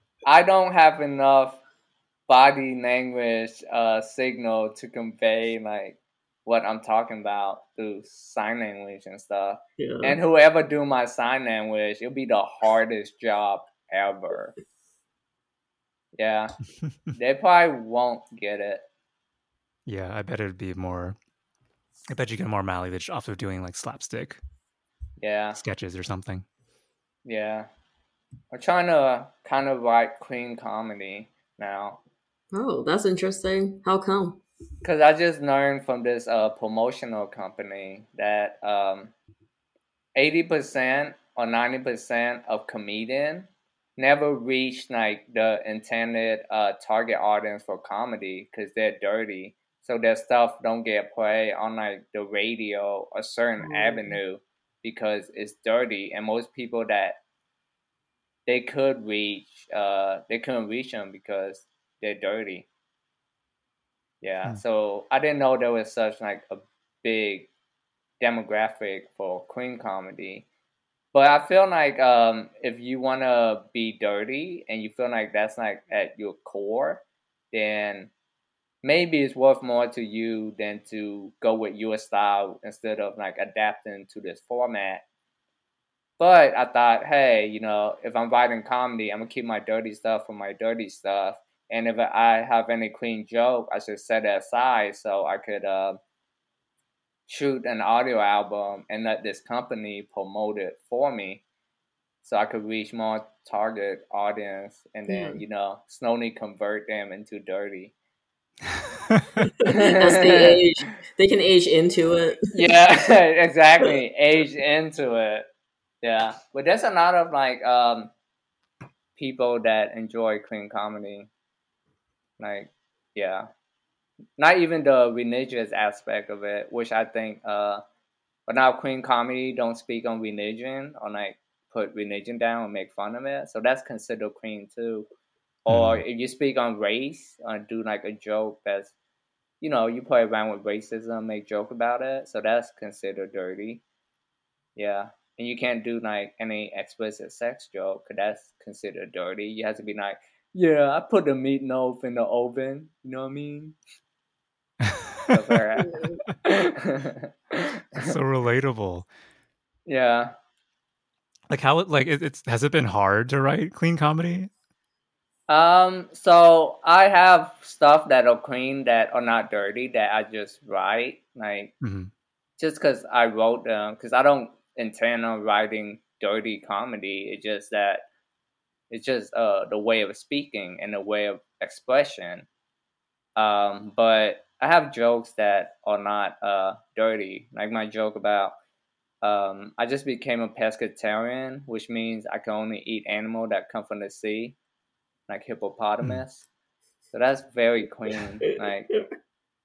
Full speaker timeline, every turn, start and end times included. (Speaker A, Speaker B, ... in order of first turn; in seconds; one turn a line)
Speaker A: 0.2-1.6
Speaker A: 2.3-14.6
Speaker B: 9.8-10.2
Speaker A: 16.1-16.6
Speaker A: 17.1-18.8
Speaker C: 19.9-21.1
Speaker C: 22.1-24.4
Speaker A: 25.2-25.6
Speaker C: 25.6-26.4
Speaker A: 27.2-27.7
Speaker A: 28.5-32.0
Speaker B: 32.5-34.4
Speaker A: 34.8-39.1
Speaker A: 40.1-57.2
Speaker B: 53.6-54.2
Speaker A: 58.5-62.7
Speaker A: 64.2-67.5
Speaker A: 68.2-70.5
Speaker A: 71.1-78.1
Speaker A: 78.8-85.0
Speaker A: 86.2-96.0
Speaker A: 97.3-101.4
Speaker A: 102.2-107.9
Speaker B: 105.1-105.4
Speaker C: 109.1-109.4
Speaker B: 109.6-112.6
Speaker A: 109.6-110.6
Speaker A: 112.5-115.5
Speaker A: 116.0-118.1
Speaker A: 119.2-121.3
Speaker A: 122.4-123.5
Speaker A: 124.4-127.8
Speaker A: 128.5-135.1
Speaker C: 135.7-136.0
Speaker A: 135.7-138.9
Speaker A: 139.6-143.8
Speaker A: 144.8-153.8
Speaker C: 154.8-155.5
Speaker A: 155.3-158.1
Speaker B: 155.9-156.2
Speaker C: 157.9-159.1
Speaker A: 159.8-160.3
Speaker C: 161.5-164.5
Speaker A: 165.5-171.7
Speaker C: 171.8-172.1
Speaker A: 172.6-178.0
Speaker A: 178.9-182.5
Speaker A: 183.3-188.5
Speaker A: 189.2-194.6
Speaker A: 195.3-196.4
Speaker A: 197.1-198.9